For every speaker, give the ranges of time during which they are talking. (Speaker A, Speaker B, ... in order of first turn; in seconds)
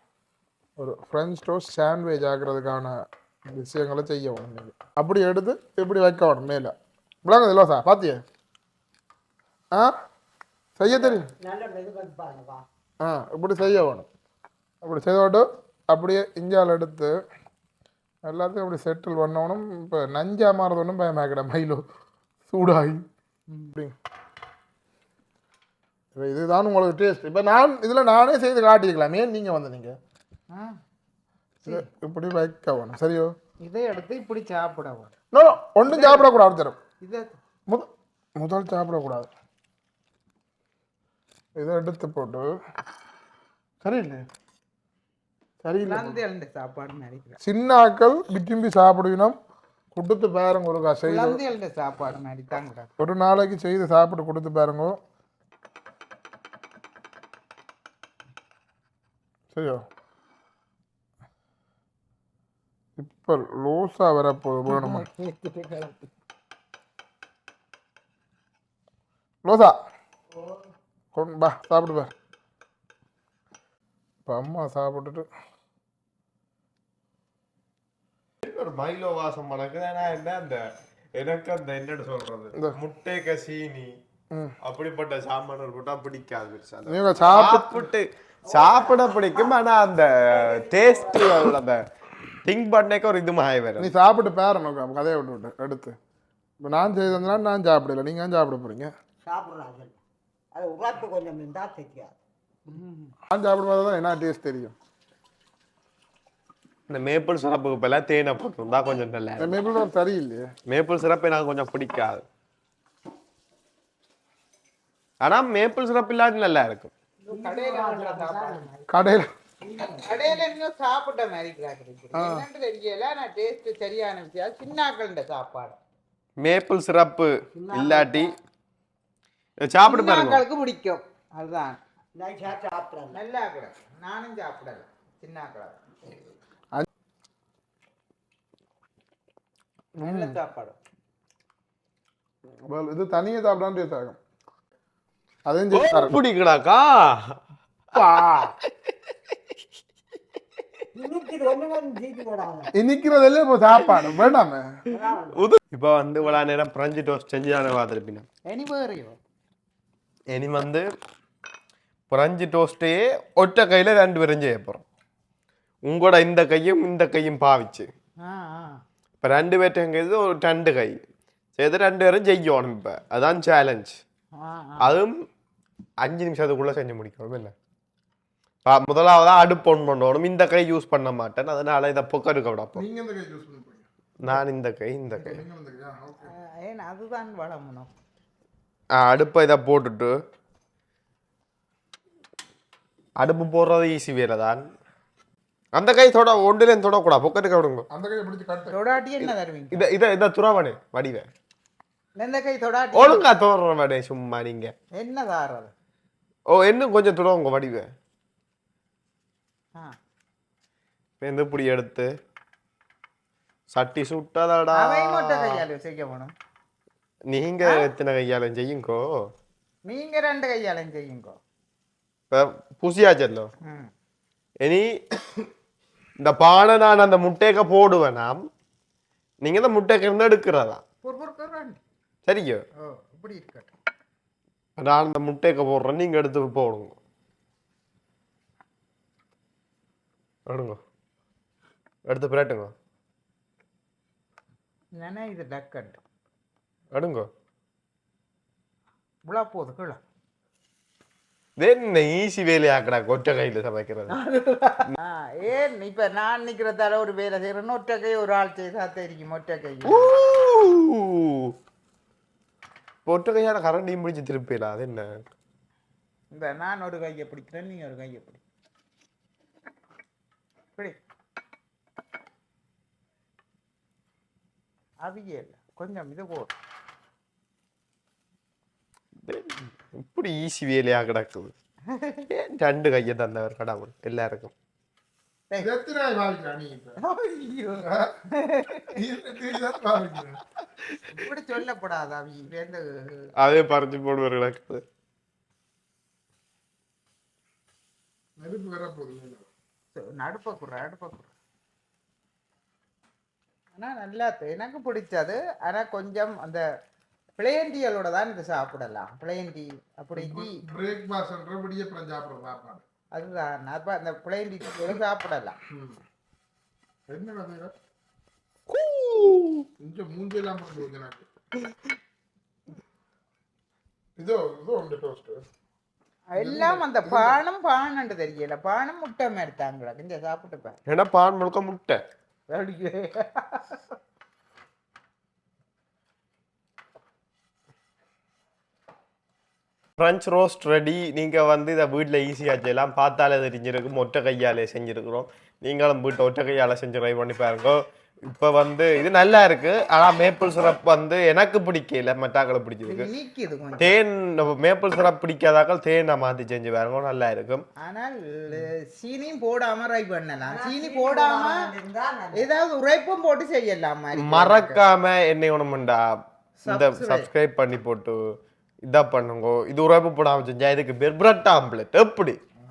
Speaker A: 0.8-6.7, 7.2-8.2, 10.8-11.3, 13.0-14.1, 14.8-17.1, 18.2-21.8, 22.5-23.0, 26.1-30.0, 31.7-33.3, 35.3-36.8, 37.7-39.3, 41.6-42.5, 43.8-44.2, 45.6-46.2, 47.4-49.4, 49.9-51.4, 53.0-55.0, 59.5-59.9, 63.0-65.0, 69.4-69.7, 71.1-72.1, 74.3-75.3, 86.9-87.8, 93.8-96.0, 96.6-98.9, 103.3-104.8, 109.4-110.5, 118.9-119.3, 122.1-122.5, 140.0-140.3, 142.7-144.2, 145.5-146.2, 147.9-148.5, 152.8-154.7, 182.8-183.9, 185.2-186.3, 197.9-198.8, 285.6-287.0, 288.9-290.4, 298.4-299.5, 310.2-312.8, 315.7-316.0, 317.1-317.7, 319.8-321.3, 324.2-325.4, 326.4-327.4
Speaker B: 10.9-12.7, 88.5-89.6, 90.1-91.5, 99.2-100.0, 100.5-102.2, 117.3-118.9, 119.6-120.5, 127.5-128.3, 132.2-133.2, 150.9-152.7, 154.9-155.5, 360.5-362.5
Speaker C: 23.5-23.7, 30.5-30.8, 31.6-31.9, 33.6-35.1, 35.8-36.3, 37.0-37.4, 45.8-47.4, 51.0-52.9, 64.7-66.0, 102.7-103.1, 117.2-118.7, 120.0-125.8, 129.8-131.8, 133.1-135.8, 140.0-140.8, 158.5-159.2, 168.2-168.8, 174.3-175.0, 186.2-187.9, 198.7-199.9, 202.2-203.2, 204.9-205.7, 214.7-216.3, 219.8-221.4, 223.6-223.9, 231.0-231.8, 232.8-233.7, 245.0-246.0, 249.3-250.0, 254.1-260.2, 266.3-268.4, 275.0-276.6, 281.9-282.2, 287.0-289.0, 291.1-293.3, 299.9-301.3, 303.8-306.6, 307.4-310.6, 313.1-315.6, 326.3-330.8, 332.5-333.8, 352.9-353.9, 357.8-361.6, 362.4-364.8, 366.6-367.3
Speaker D: 78.4-80.6, 81.2-83.9, 84.6-91.8, 92.4-93.9, 106.9-109.6, 110.7-112.2, 115.2-116.9, 126.4-128.3, 129.6-130.4, 145.7-147.4, 155.3-158.3, 160.3-160.9, 162.1-164.8, 165.9-167.9, 169.2-171.0, 171.6-173.9, 174.8-175.1, 176.0-177.5, 178.7-182.8, 184.2-185.4, 188.9-190.1, 193.2-194.6, 195.8-197.9, 199.2-201.3, 202.9-204.7, 206.5-207.9, 211.2-212.1, 213.7-215.6, 217.3-219.1, 222.3-223.5, 224.6-225.4, 226.2-228.4, 229.4-230.8, 232.3-232.6, 234.8-237.0, 240.5-240.8, 242.1-242.7, 246.9-247.3, 251.6-254.2, 259.9-261.6, 263.1-265.2, 279.2-281.5, 282.3-284.5, 293.4-294.8, 318.7-319.6, 330.9-332.0, 340.0-353.1, 353.8-357.6, 364.1-366.0, 366.7-368.2, 368.9-372.4